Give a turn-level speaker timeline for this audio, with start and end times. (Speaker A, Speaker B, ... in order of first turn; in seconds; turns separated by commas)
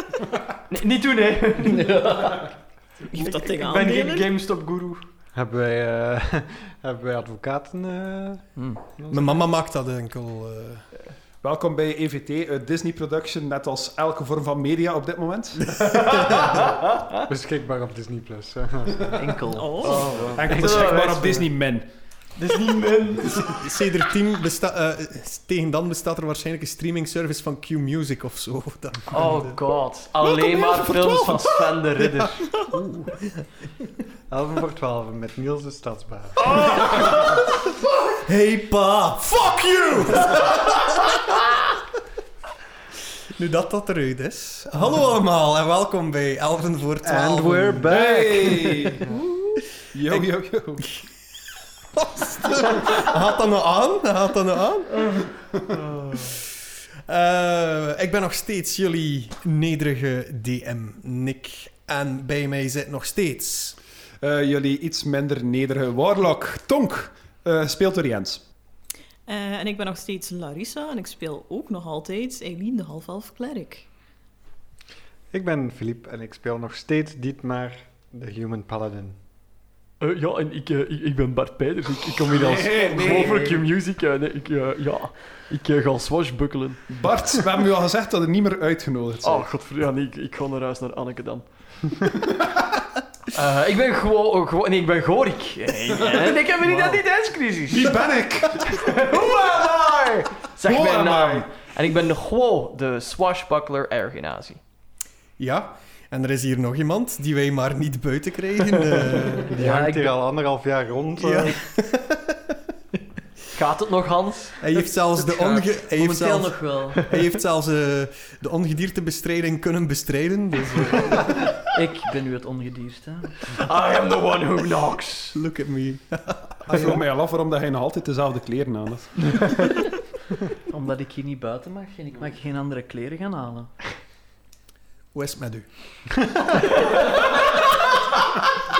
Speaker A: 0.7-2.4, Speaker B: 1.7-2.4, Speaker C: 3.1-4.2, Speaker A: 3.1-5.0, Speaker D: 5.3-9.4, Speaker B: 8.6-8.8, Speaker E: 9.1-10.9, Speaker F: 11.4-15.7, Speaker A: 15.7-16.9, Speaker D: 17.3-21.0, Speaker B: 19.1-20.2, Speaker C: 19.5-20.1, Speaker A: 19.8-21.4, Speaker F: 20.3-21.9, Speaker A: 22.4-23.7, Speaker E: 23.5-29.6, Speaker A: 29.1-32.6, Speaker E: 30.2-33.3, Speaker D: 34.3-37.2, Speaker E: 36.5-37.3, Speaker E: 38.2-41.2, Speaker E: 43.3-47.9, Speaker D: 47.0-49.0, Speaker F: 47.8-49.1, Speaker F: 49.9-50.9, Speaker E: 51.9-55.2, Speaker E: 56.1-56.4, Speaker E: 57.0-63.8, Speaker F: 64.2-68.4, Speaker C: 69.3-73.9, Speaker D: 75.3-79.2, Speaker A: 80.0-86.9, Speaker F: 82.3-83.6, Speaker F: 86.9-89.5, Speaker A: 89.2-91.9, Speaker A: 93.3-98.0, Speaker B: 96.7-97.0, Speaker F: 97.7-101.5, Speaker A: 98.6-104.6, Speaker E: 105.4-109.5, Speaker D: 109.5-111.6, Speaker B: 109.6-110.1, Speaker E: 111.2-112.5, Speaker A: 113.5-114.6, Speaker E: 114.6-121.3, Speaker B: 115.3-117.0, Speaker B: 121.7-123.4, Speaker A: 123.5-125.3, Speaker E: 125.3-127.0, Speaker F: 126.7-129.8, Speaker B: 130.7-133.7, Speaker E: 135.1-135.7